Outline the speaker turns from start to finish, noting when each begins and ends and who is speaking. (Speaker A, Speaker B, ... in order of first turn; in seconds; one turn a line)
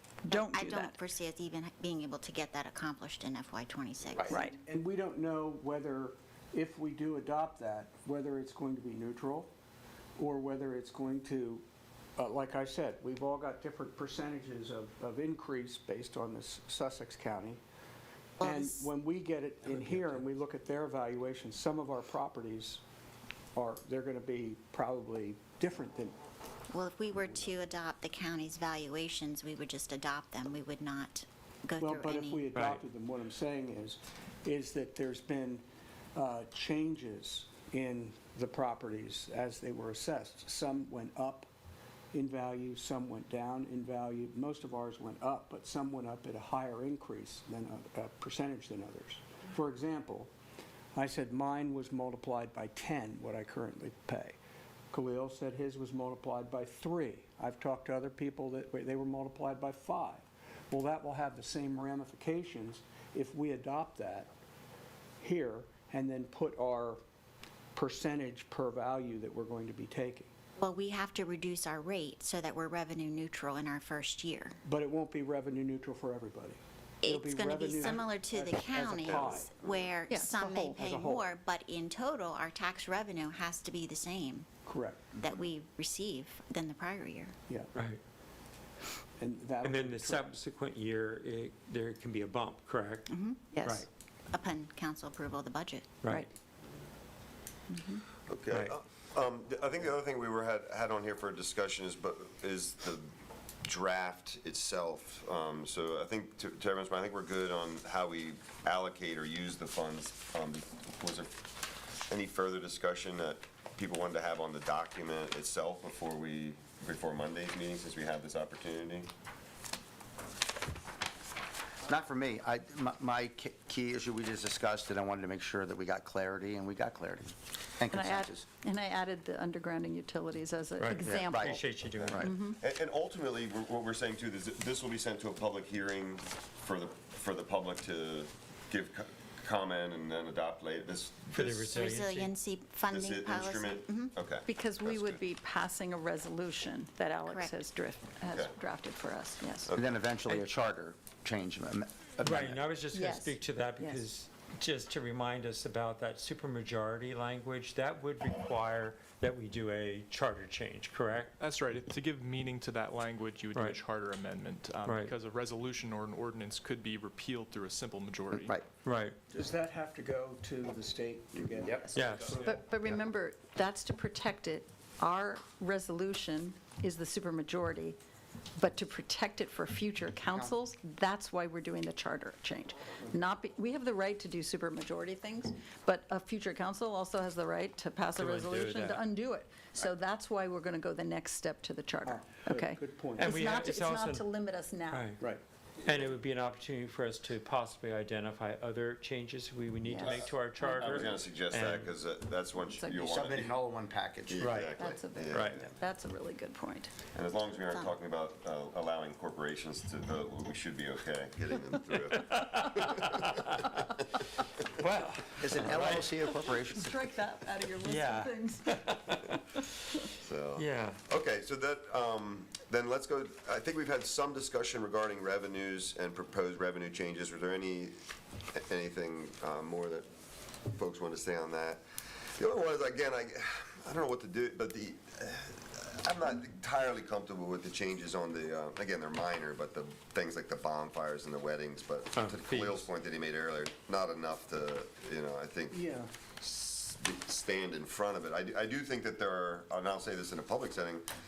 Speaker A: 0.2-1.0
Speaker B: 0.3-4.4
Speaker C: 4.2-9.5
Speaker A: 4.3-4.6
Speaker C: 10.2-11.6
Speaker C: 12.2-17.6
Speaker B: 18.4-18.9
Speaker C: 18.4-22.8
Speaker D: 19.7-20.2
Speaker C: 23.6-26.1
Speaker B: 26.7-32.5
Speaker C: 31.8-41.5
Speaker D: 32.5-32.8
Speaker C: 42.1-50.3
Speaker C: 51.0-54.4
Speaker C: 54.9-64.3
Speaker C: 65.2-67.0
Speaker C: 67.8-70.3
Speaker B: 70.6-74.6
Speaker C: 74.7-79.5
Speaker B: 77.0-84.5
Speaker A: 80.1-80.5
Speaker C: 80.5-81.3
Speaker C: 84.7-85.1
Speaker B: 85.2-87.3
Speaker C: 87.5-87.7
Speaker D: 87.8-88.0
Speaker C: 89.2-90.3
Speaker D: 89.6-93.8
Speaker B: 93.1-93.5
Speaker A: 93.5-93.8
Speaker B: 94.3-95.9
Speaker A: 97.7-98.0
Speaker E: 98.3-103.1
Speaker D: 98.5-98.8
Speaker E: 103.6-111.5
Speaker E: 112.1-119.1
Speaker F: 121.9-128.4
Speaker A: 127.9-131.6
Speaker D: 130.8-132.3
Speaker F: 131.1-132.3
Speaker E: 131.9-141.9
Speaker A: 132.2-132.6
Speaker D: 141.3-142.3
Speaker B: 141.7-144.1
Speaker E: 142.9-145.2
Speaker A: 144.5-149.7
Speaker B: 147.3-147.5
Speaker F: 149.8-152.6
Speaker D: 152.2-161.4
Speaker A: 152.9-154.0
Speaker G: 161.4-168.6
Speaker D: 164.8-165.1
Speaker D: 168.8-169.2
Speaker C: 169.3-172.5
Speaker F: 171.6-172.0
Speaker D: 171.9-172.3
Speaker G: 172.1-172.4
Speaker A: 172.4-178.0
Speaker A: 178.6-195.1
Speaker D: 188.2-189.0
Speaker C: 192.1-193.4
Speaker D: 193.2-194.2
Speaker D: 194.9-195.2
Speaker D: 195.8-201.9
Speaker F: 199.9-200.2
Speaker E: 200.0-200.3
Speaker A: 200.6-201.1
Speaker E: 200.8-203.6
Speaker A: 202.6-203.2
Speaker F: 203.0-205.0
Speaker E: 204.3-205.6
Speaker D: 204.4-204.7
Speaker A: 204.7-206.9
Speaker D: 205.3-205.6
Speaker E: 207.1-213.3
Speaker D: 212.3-213.8
Speaker D: 214.8-216.3
Speaker F: 215.4-216.9
Speaker A: 216.7-218.7
Speaker D: 217.8-221.0
Speaker E: 220.2-228.0
Speaker E: 228.5-230.1
Speaker E: 230.7-231.8
Speaker E: 232.4-245.8
Speaker D: 242.1-242.9
Speaker C: 245.7-246.1
Speaker E: 246.4-251.1